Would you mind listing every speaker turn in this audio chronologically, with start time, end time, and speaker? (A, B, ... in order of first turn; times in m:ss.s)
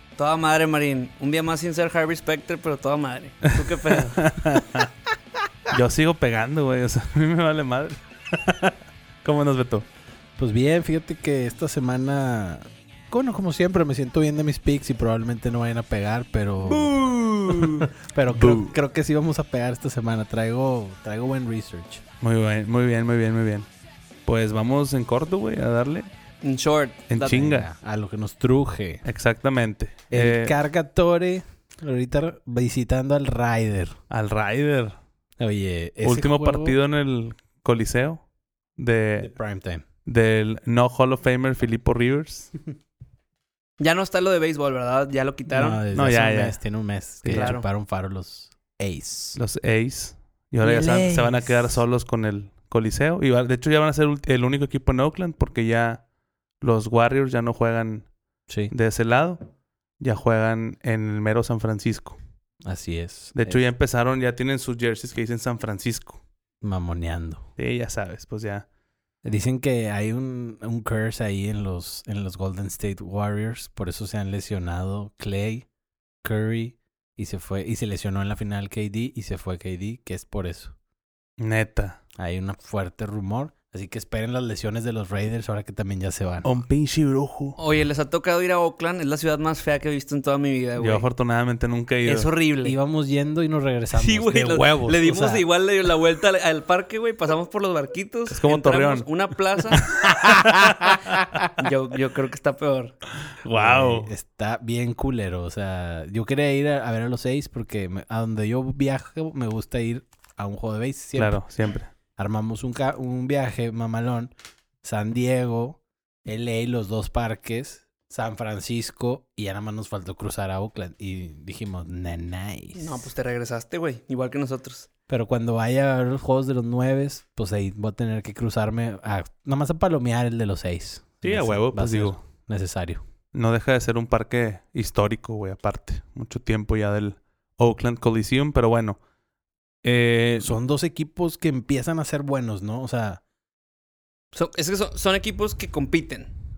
0:00.2-0:04.2 A
0:03.6-0:04.9 B
0:05.7-0:09.8 B
0:10.4-0:17.0 C
0:16.6-0:17.9 A
0:17.6-0:22.0 C
0:18.3-0:18.7 B
0:22.2-0:23.7 B
0:24.3-0:26.1 B
0:26.4-0:27.4 A
0:27.1-0:27.7 B
0:27.2-0:29.0 C
0:29.0-0:30.6 B
0:30.1-0:34.0 C
0:34.1-0:35.0 B
0:35.4-0:36.8 C
0:36.0-0:38.2 B
0:38.8-0:39.3 B
0:39.2-0:39.8 C
0:40.1-0:42.5 B
0:43.8-0:45.8 A
0:45.5-0:49.4 C
0:45.9-0:46.6 B
0:47.2-0:47.6 B
0:47.3-0:47.6 A
0:49.4-0:56.0 B
0:50.6-0:51.8 C
0:56.6-0:58.1 B
0:58.7-0:59.4 B
1:00.0-1:02.2 B
1:02.6-1:03.6 C
1:03.4-1:06.2 B
1:06.6-1:07.4 C
1:07.6-1:08.7 B
1:09.2-1:15.7 C
1:16.2-1:20.7 C
1:21.4-1:22.0 B
1:22.2-1:26.6 C
1:26.4-1:27.6 B
1:27.6-1:31.1 A
1:30.8-1:32.3 B
1:32.0-1:32.8 A
1:32.6-1:35.4 C
1:34.0-1:39.9 A
1:38.3-1:39.1 B
1:39.8-1:41.5 C
1:39.9-1:41.0 B
1:41.6-1:43.0 A
1:43.4-1:44.1 B
1:43.5-1:51.4 C
1:51.2-1:51.9 B
1:52.2-1:54.3 C
1:54.8-2:03.1 C
2:02.8-2:04.9 A
2:05.1-2:13.0 C
2:11.2-2:12.2 B
2:13.3-2:19.0 B
2:19.8-2:20.5 B
2:20.4-2:23.2 C
2:24.3-2:26.3 A